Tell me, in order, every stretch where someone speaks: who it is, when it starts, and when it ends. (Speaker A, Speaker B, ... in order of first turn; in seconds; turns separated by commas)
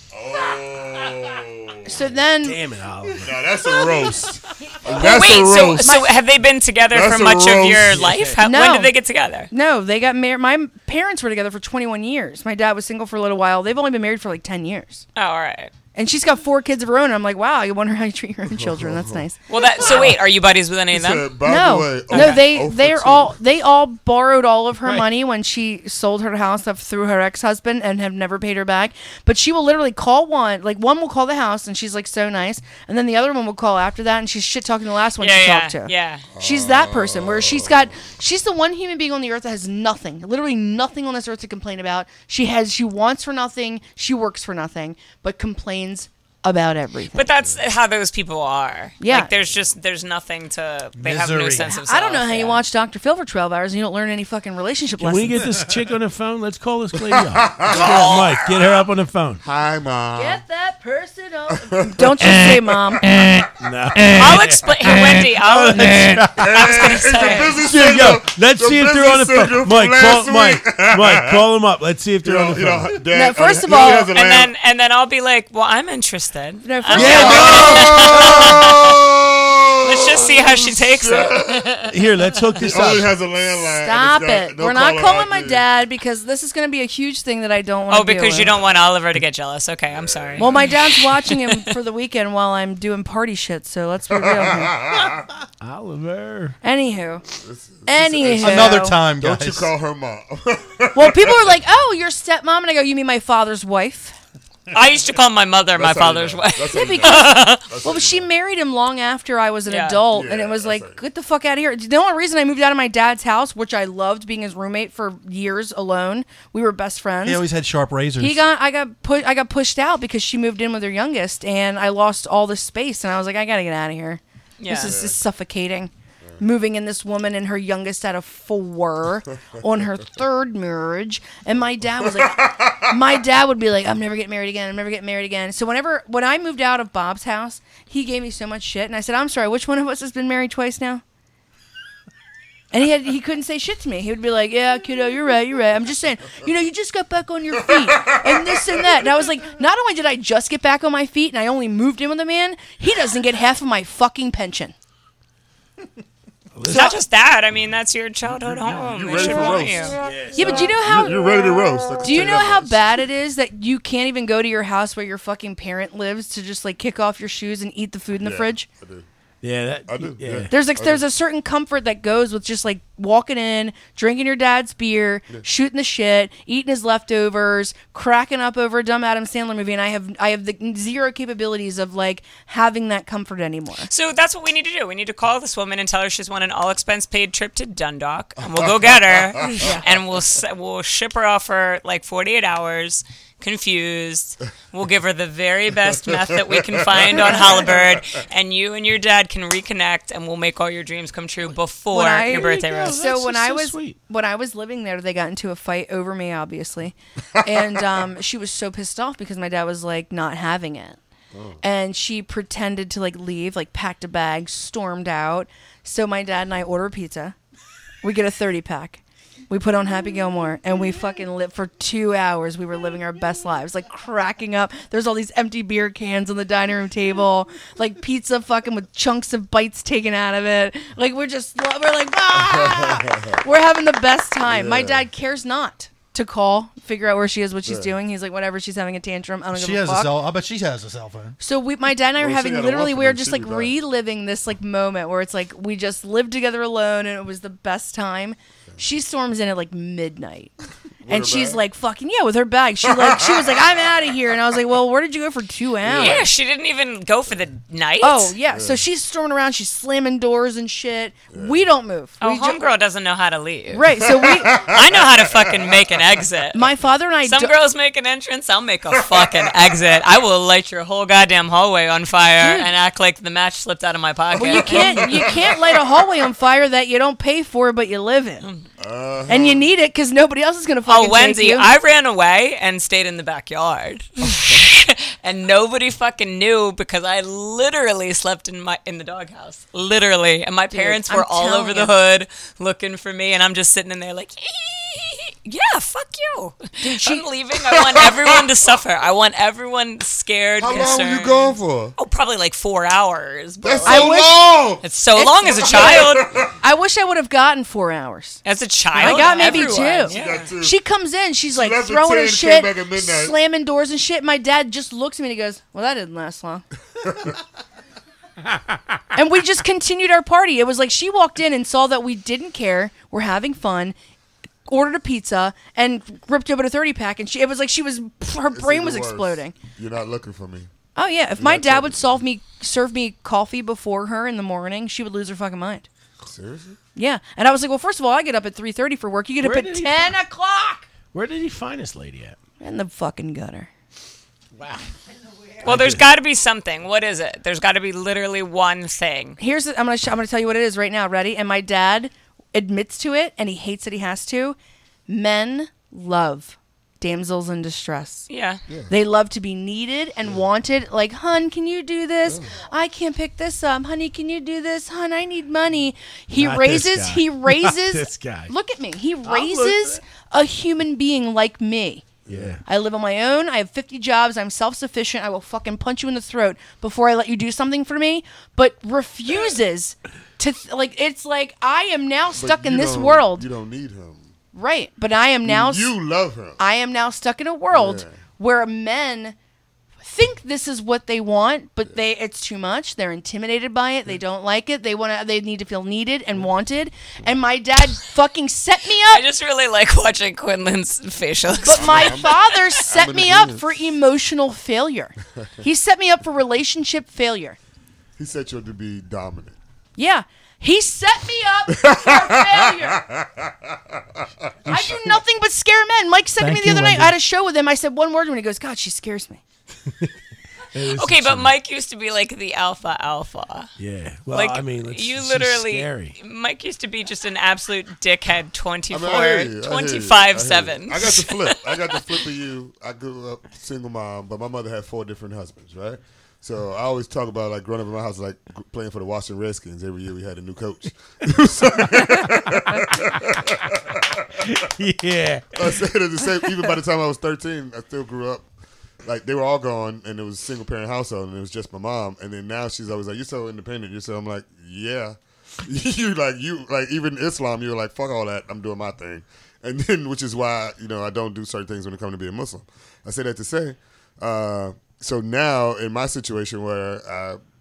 Speaker A: 0.1-2.1, Speaker B: 1.8-2.6, Speaker C: 2.4-3.5, Speaker A: 3.2-6.0, Speaker D: 4.9-9.5, Speaker B: 5.8-6.1, Speaker A: 6.9-8.1, Speaker C: 7.8-8.4, Speaker B: 8.4-8.9, Speaker B: 9.5-15.0, Speaker D: 15.2-15.7, Speaker B: 15.9-19.8, Speaker A: 18.5-19.2, Speaker D: 19.5-21.3, Speaker A: 19.8-20.2, Speaker A: 20.9-23.3, Speaker B: 21.4-47.3, Speaker D: 22.1-22.4, Speaker D: 35.2-36.2, Speaker A: 36.3-38.0, Speaker D: 47.1-52.6, Speaker B: 49.0-49.3, Speaker E: 51.0-51.7, Speaker B: 51.6-55.5, Speaker C: 55.0-59.4, Speaker A: 57.0-58.1, Speaker D: 57.7-58.5, Speaker A: 59.4-60.4, Speaker B: 60.1-63.0, Speaker A: 61.6-63.0, Speaker C: 63.6-66.5, Speaker D: 64.2-67.6, Speaker A: 66.3-71.4, Speaker B: 67.2-67.5, Speaker C: 67.6-73.0, Speaker A: 72.2-74.5, Speaker B: 73.1-74.1, Speaker D: 74.1-79.0, Speaker B: 76.6-77.8, Speaker C: 76.9-78.6, Speaker A: 77.0-81.9, Speaker D: 79.8-81.9, Speaker C: 81.9-83.2, Speaker A: 82.6-85.6, Speaker B: 83.8-88.5, Speaker D: 87.9-91.7, Speaker A: 89.9-90.7, Speaker B: 90.4-94.7, Speaker A: 94.1-95.3, Speaker C: 95.6-96.6, Speaker B: 96.6-97.2, Speaker A: 97.3-101.6, Speaker B: 97.8-99.0, Speaker E: 98.4-99.7, Speaker B: 100.9-104.2, Speaker D: 104.7-107.6, Speaker A: 105.8-108.3, Speaker B: 106.7-117.5, Speaker D: 109.7-110.0, Speaker A: 110.1-111.0, Speaker E: 117.2-118.5, Speaker B: 118.2-141.0, Speaker D: 124.6-124.9, Speaker A: 124.7-125.2, Speaker A: 132.0-132.9, Speaker B: 142.7-154.7, Speaker A: 147.9-149.0, Speaker C: 156.5-157.0, Speaker B: 156.7-156.9, Speaker D: 156.7-160.0, Speaker A: 158.8-163.0, Speaker C: 160.0-160.8, Speaker B: 160.3-161.2, Speaker B: 162.0-168.7, Speaker A: 168.2-169.1, Speaker C: 169.4-170.5, Speaker A: 169.9-171.0, Speaker B: 170.5-183.9, Speaker D: 183.9-202.9, Speaker A: 188.6-189.6, Speaker B: 189.6-189.9, Speaker A: 196.1-198.0, Speaker B: 201.9-211.0, Speaker C: 202.3-204.0, Speaker A: 211.3-211.6, Speaker B: 211.6-217.3, Speaker B: 218.0-240.1, Speaker A: 232.3-233.4, Speaker A: 234.4-235.1, Speaker A: 237.7-237.9, Speaker E: 239.5-241.3, Speaker B: 241.4-250.5, Speaker A: 242.2-243.7, Speaker A: 251.0-251.6, Speaker B: 251.1-256.3, Speaker A: 252.8-253.8, Speaker A: 255.8-256.3, Speaker D: 255.9-258.3, Speaker B: 258.0-262.6, Speaker A: 258.5-258.8, Speaker A: 261.3-261.6, Speaker D: 262.2-263.9, Speaker B: 263.7-264.6, Speaker A: 264.0-265.8, Speaker D: 264.7-266.7, Speaker B: 266.5-267.5, Speaker D: 267.2-275.4, Speaker A: 269.1-269.5, Speaker B: 272.4-272.7, Speaker B: 274.3-278.4, Speaker A: 274.4-275.8, Speaker A: 278.8-279.7, Speaker B: 279.3-281.7, Speaker D: 280.9-304.2, Speaker A: 284.4-284.6, Speaker B: 290.7-291.9, Speaker B: 296.8-297.2, Speaker A: 297.7-298.4, Speaker A: 300.6-301.9, Speaker B: 300.7-301.0, Speaker A: 303.6-304.8, Speaker B: 303.8-304.6, Speaker D: 304.8-306.3, Speaker B: 305.1-308.4, Speaker A: 305.4-306.5, Speaker D: 308.4-310.5, Speaker B: 308.9-316.6, Speaker A: 309.0-310.8, Speaker A: 311.5-313.4, Speaker A: 317.0-317.4, Speaker B: 319.1-323.9, Speaker B: 324.7-329.5, Speaker A: 328.5-330.7, Speaker B: 330.9-335.9, Speaker A: 331.4-332.2, Speaker A: 336.2-336.8, Speaker B: 336.9-340.9, Speaker C: 339.4-340.2, Speaker C: 341.1-342.4, Speaker B: 342.6-343.7, Speaker C: 344.5-344.9, Speaker C: 345.6-346.1, Speaker D: 345.6-349.4, Speaker B: 349.4-354.6, Speaker B: 355.1-358.3, Speaker D: 358.3-358.6, Speaker B: 358.9-372.1, Speaker A: 362.2-362.5, Speaker C: 366.3-368.5, Speaker C: 369.2-370.0, Speaker A: 372.2-372.6, Speaker C: 372.3-372.6, Speaker B: 372.6-383.4, Speaker A: 382.4-384.3, Speaker B: 384.5-385.9, Speaker A: 385.4-386.6, Speaker B: 386.6-389.4, Speaker A: 387.7-388.2, Speaker B: 390.0-399.2, Speaker D: 399.1-402.7, Speaker B: 401.6-407.6, Speaker A: 401.6-403.6, Speaker A: 408.2-409.6, Speaker B: 410.0-413.0, Speaker A: 411.7-415.2, Speaker B: 414.7-419.4, Speaker E: 416.4-417.2, Speaker C: 420.7-421.5, Speaker D: 420.9-423.7, Speaker C: 423.8-426.1, Speaker D: 424.3-432.0, Speaker A: 428.9-444.2, Speaker C: 444.4-445.7, Speaker A: 445.5-448.5, Speaker A: 449.0-467.4